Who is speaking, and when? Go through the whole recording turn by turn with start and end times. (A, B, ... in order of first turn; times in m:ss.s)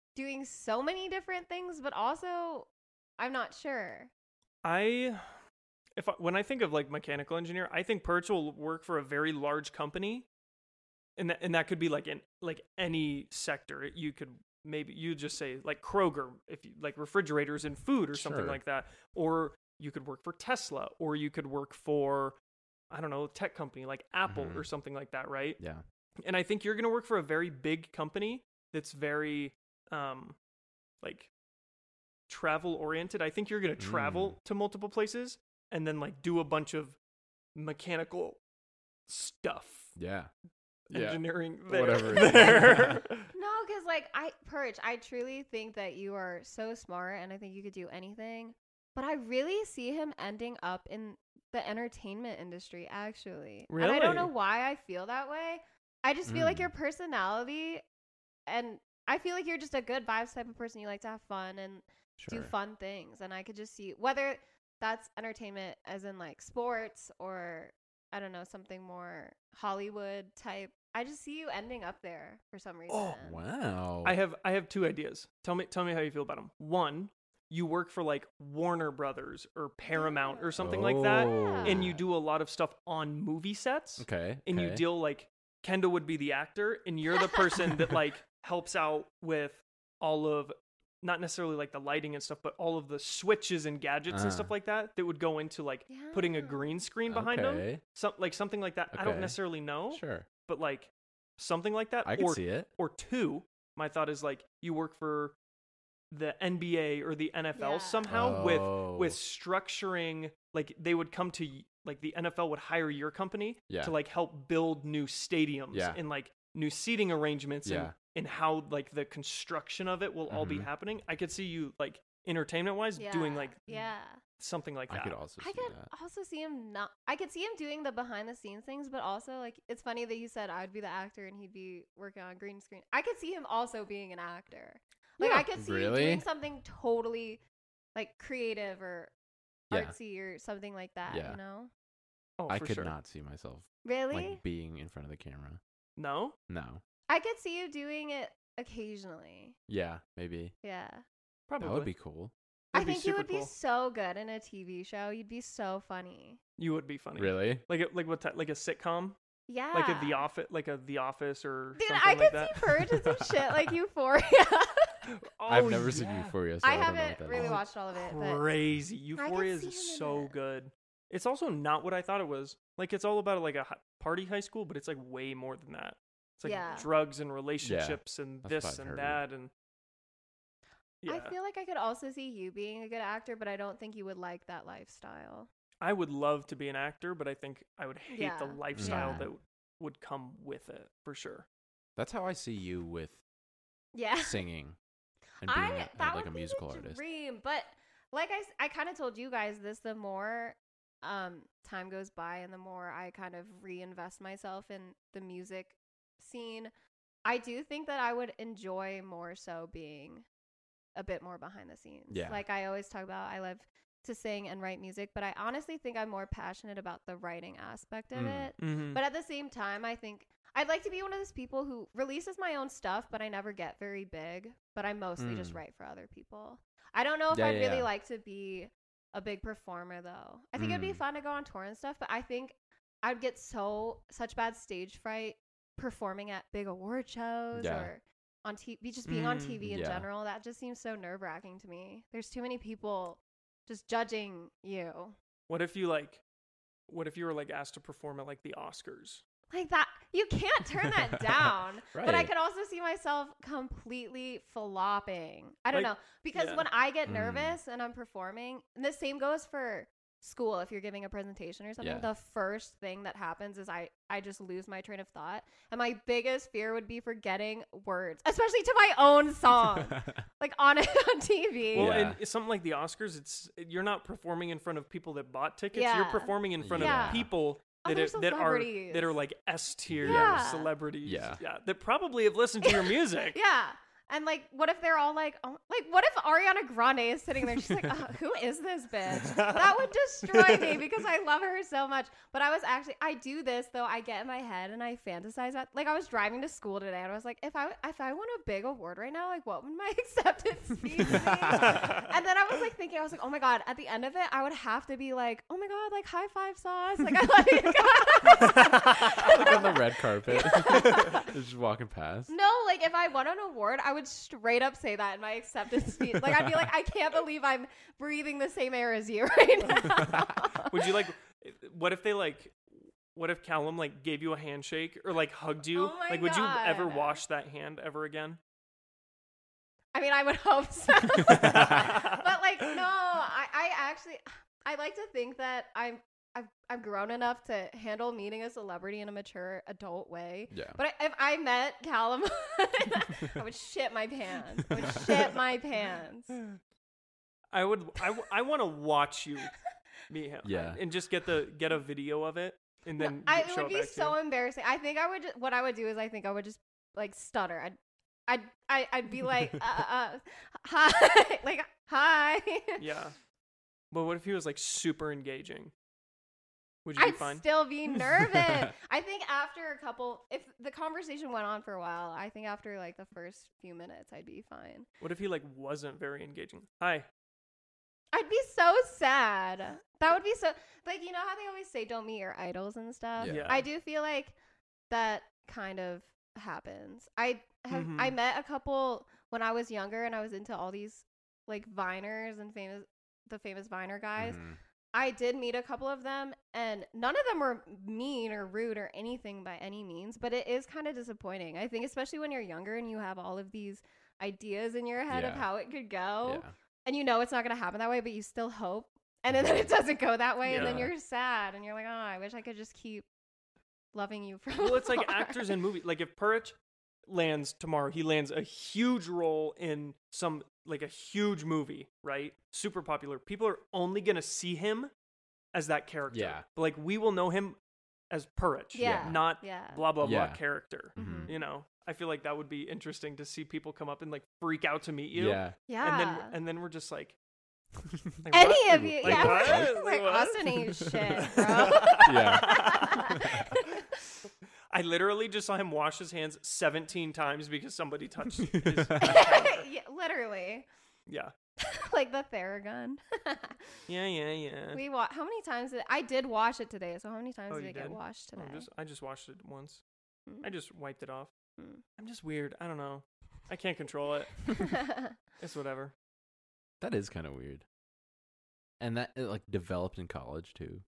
0:00.2-0:04.1 A
0:04.6-0:05.4 B
0:06.0-0:10.3 B
0:11.2-0:22.4 B
0:18.1-0:18.6 C
0:22.9-0:25.6 B
0:24.3-0:24.7 C
0:25.6-0:25.8 C
0:26.2-0:30.4 B
0:31.0-0:31.3 B
0:32.3-0:37.0 B
0:33.8-0:34.4 C
0:37.6-0:38.4 B
0:39.1-0:39.9 B
0:40.0-0:40.3 C
0:40.9-0:43.3 B
0:40.9-0:43.0 C
0:42.2-0:42.6 A
0:43.3-0:57.8 A
0:53.7-0:54.3 B
0:56.3-0:56.7 C
0:58.5-1:13.4 A
1:02.2-1:02.5 C
1:12.9-1:13.2 B
1:13.2-1:14.2 C
1:14.0-1:45.4 B
1:19.9-1:21.9 A
1:20.6-1:22.0 C
1:24.0-1:24.8 C
1:27.1-1:27.5 A
1:34.1-1:34.5 C
1:35.9-1:36.7 A
1:37.1-1:37.8 C
1:38.9-1:39.4 C
1:39.9-1:40.3 C
1:42.0-1:42.7 C
1:46.1-2:05.2 B
1:47.6-1:48.1 A
1:48.1-1:49.2 C
1:53.7-1:54.0 C
1:55.7-1:56.0 C
1:57.6-1:57.9 C
2:00.3-2:00.7 C
2:03.0-2:04.2 A
2:04.9-2:05.9 C
2:05.4-2:17.4 A
2:15.2-2:16.2 C
2:18.0-2:19.1 A
2:19.7-2:21.7 A
2:21.1-2:21.4 C
2:22.4-2:22.9 B
2:22.5-2:25.6 C
2:23.8-2:24.4 A
2:26.0-2:26.4 B
2:26.5-2:26.8 C
2:27.1-2:29.6 A
2:29.7-2:30.5 C
2:30.6-2:31.0 A
2:31.5-2:31.9 B
2:31.6-2:32.3 C
2:32.7-2:33.5 B
2:32.7-2:36.4 A
2:36.6-2:39.2 B
2:37.2-2:37.6 C
2:39.5-2:40.3 A
2:39.7-2:42.8 B
2:41.8-2:45.0 A
2:43.1-2:43.6 C
2:45.1-2:46.4 B
2:45.5-2:47.6 C
2:46.6-2:48.5 A
2:47.3-2:59.5 B
2:49.2-2:50.4 A
2:56.4-2:56.9 A
2:57.6-2:59.2 C
3:01.0-3:01.4 B
3:01.1-3:05.5 A
3:05.8-3:11.5 B
3:08.1-3:09.2 A
3:08.7-3:09.3 C
3:12.0-3:13.2 C
3:14.0-3:14.4 A
3:14.2-3:14.8 C
3:15.4-3:17.0 C
3:15.4-3:26.7 A
3:27.2-3:30.3 A
3:31.0-4:05.2 A
3:32.1-3:32.4 C
3:38.1-3:38.5 C
3:38.6-3:39.0 B
3:45.2-3:45.6 C
3:47.3-3:47.9 C
3:50.6-3:51.0 C
3:57.6-3:57.9 C
3:59.1-3:59.6 B
3:59.6-4:00.1 C
4:05.5-4:06.2 B
4:06.9-4:09.2 B
4:09.5-4:32.0 A
4:11.0-4:12.3 C
4:15.7-4:16.7 B
4:17.1-4:17.6 C
4:21.8-4:22.1 C
4:29.8-4:30.2 C
4:31.7-4:43.4 B
4:31.8-4:32.2 C
4:35.7-4:37.3 A
4:36.6-4:37.3 C
4:37.8-4:39.2 A
4:39.9-4:40.5 C
4:40.0-4:40.7 A
4:41.0-4:41.4 C
4:42.6-5:11.3 A
4:49.1-4:50.8 B
5:01.0-5:02.0 C
5:01.6-5:02.0 B
5:09.1-5:12.3 C
5:12.3-5:20.9 A
5:20.6-5:28.4 B
5:25.7-5:27.2 A
5:29.9-5:46.4 A
5:31.3-5:32.3 B
5:40.5-5:40.8 C
5:44.7-5:45.1 C
5:47.5-5:49.5 B
5:50.1-5:54.2 B
5:50.4-5:50.8 C
5:53.0-6:02.8 A
6:02.8-6:03.2 B
6:03.9-6:05.7 B
6:06.8-6:07.5 B
6:07.0-6:14.9 A
6:15.0-6:17.1 B
6:18.1-6:24.4 A
6:23.2-6:23.6 C
6:23.2-6:23.7 B
6:24.9-6:34.4 A
6:27.7-6:28.2 B
6:34.2-6:34.6 C
6:34.9-6:53.1 A
6:45.1-6:45.5 C
6:46.2-6:46.5 C
6:49.3-6:49.7 C
6:50.5-6:50.9 B
6:50.5-6:50.9 C
6:53.9-6:55.6 A
6:54.6-6:56.6 B
6:57.1-7:04.9 B
7:05.5-7:07.6 B
7:06.1-7:06.4 C
7:08.1-7:17.2 B
7:08.7-7:09.9 A
7:08.8-7:09.2 C
7:10.0-7:10.4 C
7:11.0-7:11.4 C
7:11.0-7:11.4 A
7:15.1-7:15.6 C
7:15.7-7:16.4 A
7:18.2-7:20.5 B
7:18.3-7:23.9 A
7:18.6-7:19.8 C
7:20.5-7:23.5 C
7:21.2-7:24.0 B
7:24.7-7:29.6 B
7:28.5-7:29.1 C
7:29.0-7:30.7 A
7:31.1-7:31.3 B
7:31.6-7:33.8 A
7:33.9-7:34.8 B
7:34.7-7:38.7 A
7:37.5-7:39.8 B
7:40.4-7:41.3 B
7:42.0-7:44.5 B
7:44.6-7:45.2 A
7:45.4-7:45.9 B
7:46.8-7:47.6 C
7:48.8-7:50.8 C